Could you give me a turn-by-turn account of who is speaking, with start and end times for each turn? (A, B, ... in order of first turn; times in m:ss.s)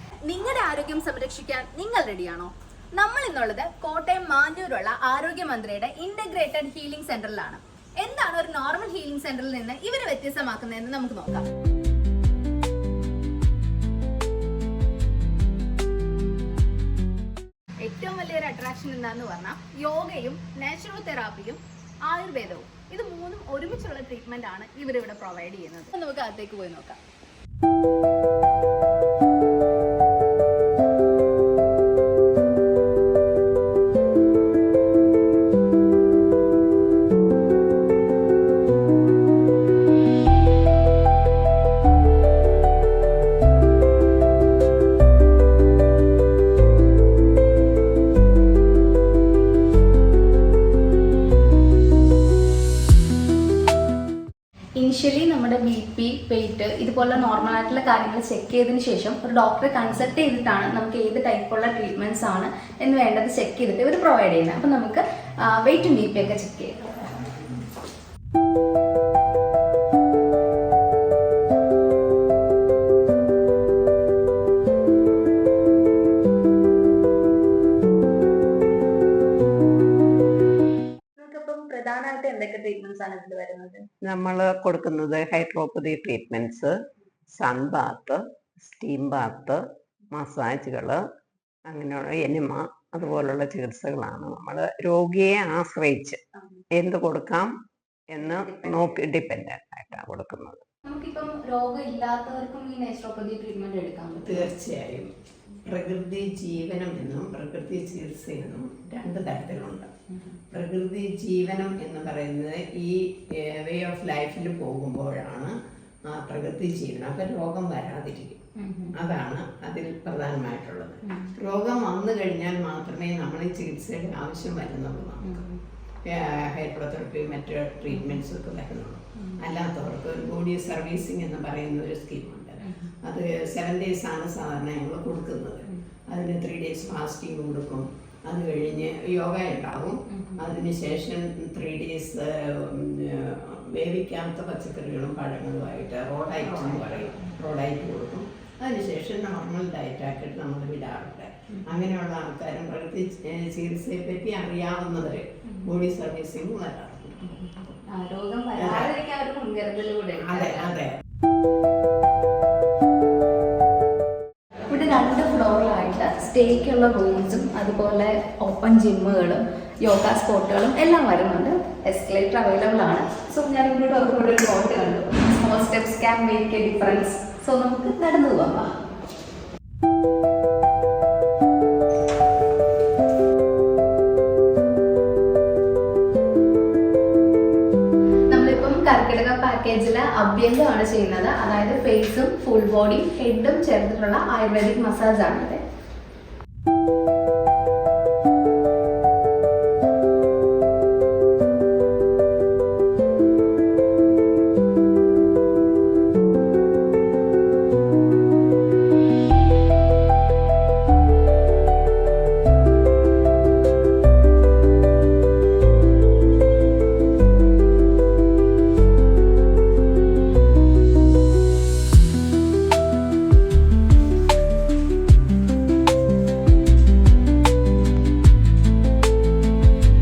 0:00.2-0:11.5 A
0:17.8-0:27.0 A
0:54.8-1:07.3 A
1:21.2-1:23.9 A
1:24.0-1:26.8 B
1:27.4-1:31.0 B
1:31.7-1:36.2 B
1:36.7-1:37.5 B
1:38.1-1:40.6 B
1:38.2-1:39.0 A
1:40.9-1:44.5 A
1:44.2-1:45.1 B
1:45.7-1:49.9 B
1:50.5-1:55.6 B
1:56.1-1:58.4 B
1:58.6-1:59.0 A
1:58.9-2:05.4 B
2:01.0-2:01.4 A
2:05.2-2:05.6 A
2:06.0-2:37.5 B
2:07.9-2:08.2 A
2:12.6-2:12.9 A
2:20.1-2:20.5 A
2:31.5-2:31.8 A
2:37.9-2:40.8 A
2:38.6-2:38.9 B
2:40.2-2:41.0 B
2:44.7-2:58.8 A
3:08.3-3:15.6 A